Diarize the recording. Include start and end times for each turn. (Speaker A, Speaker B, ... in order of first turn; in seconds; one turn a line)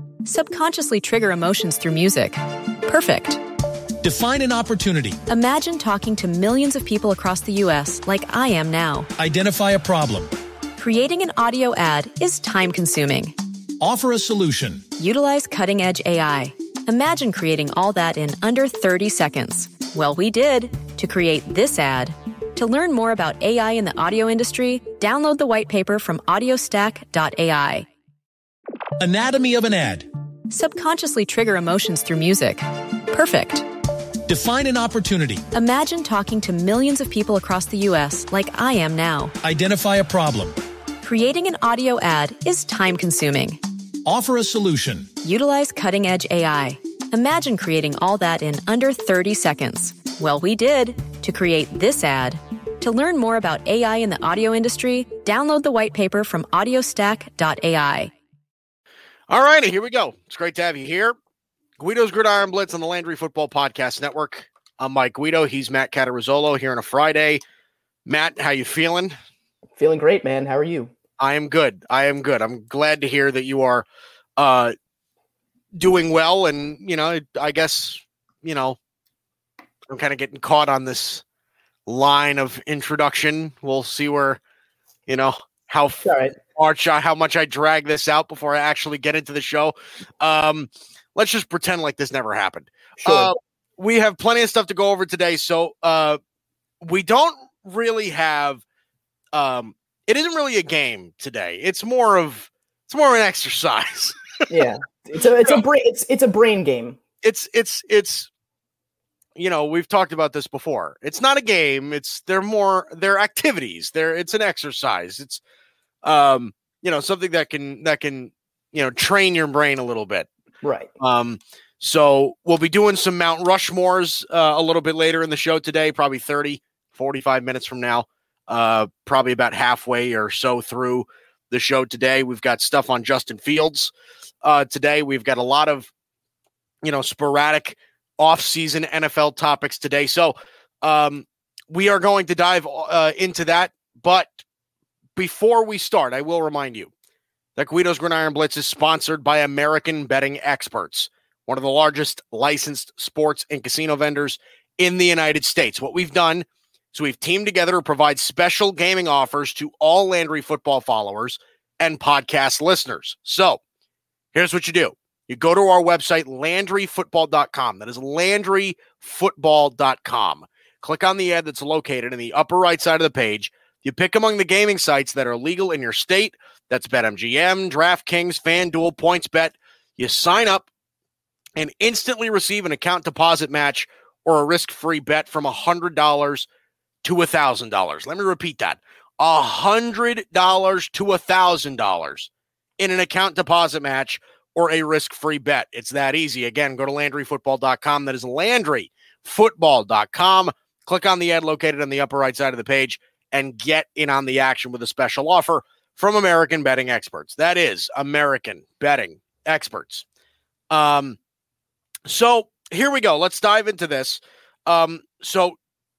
Speaker A: 0.2-3.4
Speaker B: 4.0-5.2
Speaker A: 5.3-9.1
Speaker B: 9.2-10.3
Speaker A: 10.8-13.3
Speaker B: 13.8-14.8
Speaker A: 15.0-27.9
Speaker B: 29.0-30.1
Speaker A: 30.5-33.7
Speaker B: 34.2-35.4
Speaker A: 35.5-39.4
Speaker B: 39.4-40.5
Speaker A: 41.0-43.6
Speaker B: 44.0-45.1
Speaker A: 45.2-58.1
Speaker C: 59.3-61.1
Speaker C: 61.8-67.4
Speaker C: 68.0-69.1
Speaker D: 69.8-70.9
Speaker C: 71.2-73.9
Speaker C: 74.4-74.7
Speaker C: 75.8-78.8
Speaker C: 79.9-81.2
Speaker C: 81.9-84.4
Speaker C: 85.1-96.2
Speaker D: 86.0-86.3
Speaker D: 93.0-93.3
Speaker C: 96.8-98.6
Speaker C: 99.3-104.6
Speaker D: 104.5-107.0
Speaker C: 107.2-108.3
Speaker C: 109.4-115.4
Speaker C: 116.0-120.3
Speaker D: 120.6-120.9
Speaker C: 121.0-133.9
Speaker C: 134.4-135.9
Speaker C: 136.8-144.4
Speaker C: 145.2-146.9
Speaker C: 147.6-163.6
Speaker C: 164.3-180.7
Speaker C: 181.6-186.5
Speaker C: 187.0-210.0
Speaker C: 210.7-211.2
Speaker C: 212.1-215.6